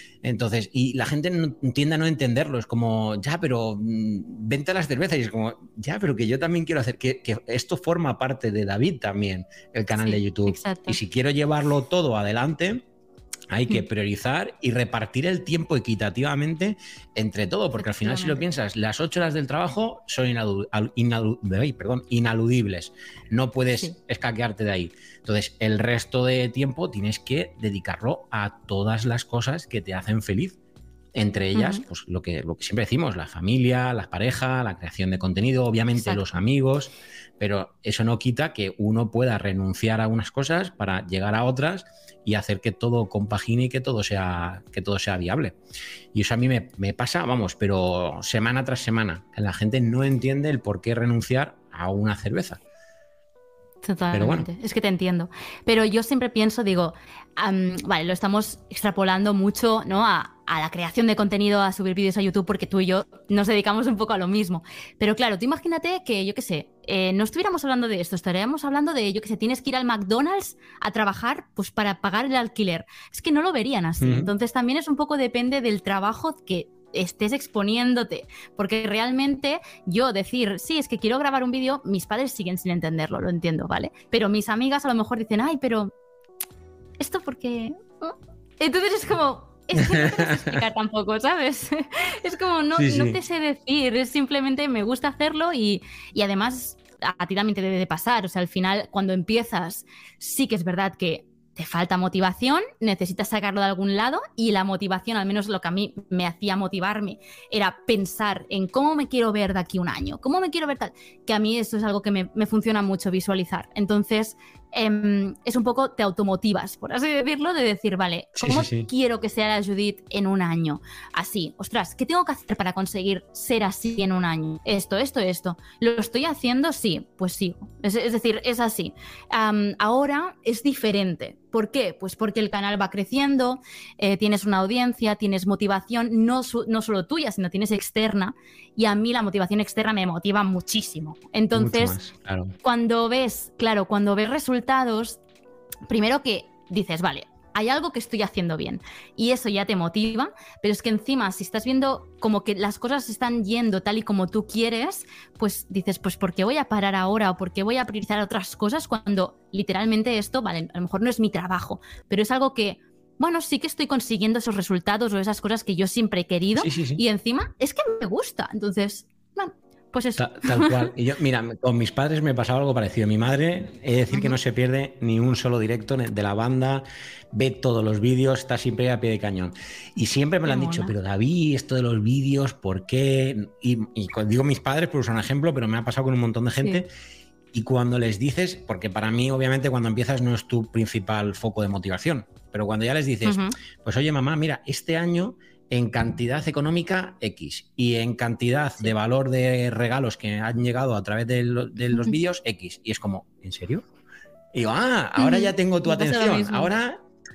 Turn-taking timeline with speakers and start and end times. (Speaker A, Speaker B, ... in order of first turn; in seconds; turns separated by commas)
Speaker A: 0.2-12.8, Speaker B: 10.0-11.0, Speaker A: 13.5-30.6, Speaker B: 17.8-18.4, Speaker A: 31.1-45.6, Speaker B: 31.5-31.8, Speaker B: 36.0-36.2, Speaker A: 46.1-52.6, Speaker B: 53.8-85.9, Speaker A: 54.1-54.5, Speaker A: 74.0-74.3, Speaker B: 87.0-142.0, Speaker A: 89.9-90.3, Speaker A: 92.8-93.2, Speaker A: 118.4-118.9, Speaker A: 141.5-142.6, Speaker B: 142.6-145.2, Speaker B: 145.9-170.9, Speaker A: 166.6-167.0, Speaker A: 170.2-186.9, Speaker B: 174.1-174.4, Speaker B: 180.5-180.9, Speaker A: 187.5-203.8, Speaker B: 193.2-193.6, Speaker A: 204.5-207.0, Speaker B: 205.2-206.7